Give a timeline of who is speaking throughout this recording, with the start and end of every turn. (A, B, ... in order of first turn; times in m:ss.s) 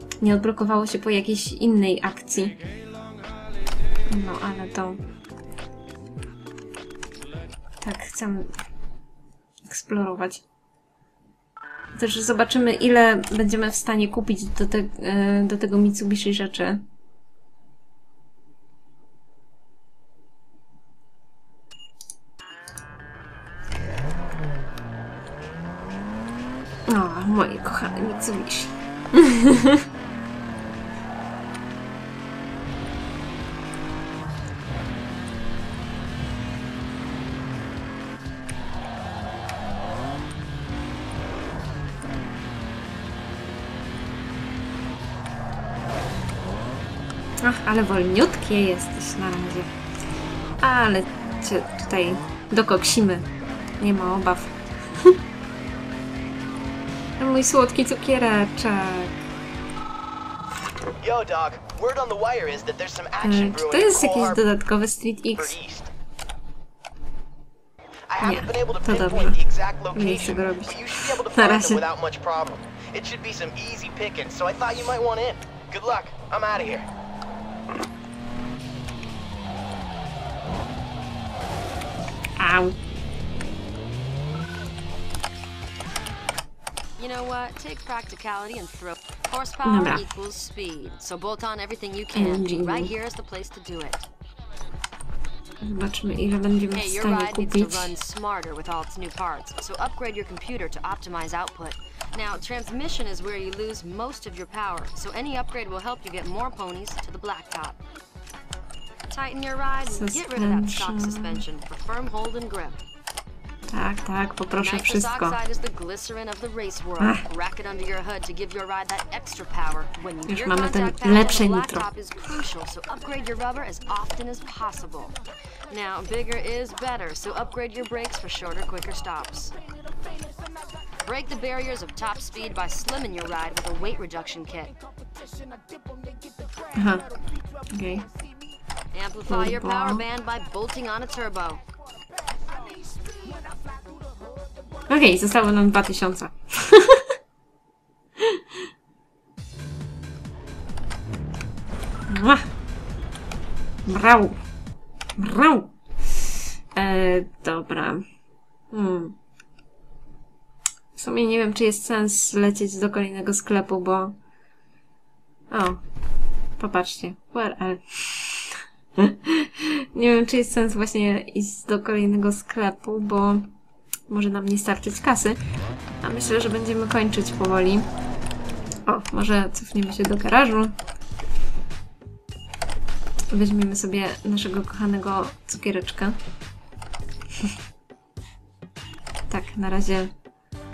0:00.2-0:02.6 A
0:04.1-0:05.0 A
0:07.8-0:08.5 A
0:09.7-0:10.4 A
0:12.0-0:16.8 A
0:26.9-0:29.8 A
0:47.4-0:49.7 A
0:50.6-0:53.3 A
0:53.8-0:55.2 A
0:57.2-0:59.2 A
1:01.0-1:04.4 B
1:03.2-1:05.6 A
1:05.4-1:05.9 B
1:08.1-1:16.9 B
1:08.2-1:09.4 A
1:09.9-1:11.8 A
1:22.4-1:22.8 A
1:27.0-1:34.1 C
1:29.6-1:30.0 A
1:32.1-1:32.9 A
1:35.6-1:37.9 A
1:36.7-1:47.8 C
1:49.1-1:52.8 C
1:49.8-1:51.4 A
1:53.7-1:55.4 A
1:54.6-2:05.2 C
1:57.0-1:57.3 A
2:00.3-2:01.9 A
2:05.7-2:09.6 C
2:11.0-2:14.8 C
2:16.7-2:17.1 A
2:17.7-2:18.1 A
2:18.9-2:21.6 C
2:19.3-2:20.0 A
2:24.9-2:27.1 A
2:28.2-2:28.4 A
2:32.1-2:32.5 A
2:33.9-2:34.4 A
2:35.2-2:38.0 A
2:38.7-2:39.2 A
2:41.0-2:44.2 A
2:45.5-2:45.8 A
2:46.6-2:53.5 A
2:54.1-2:55.4 A
2:56.0-2:57.9 A
2:58.9-3:00.8 A
3:03.3-3:06.2 A
3:09.3-3:10.1 A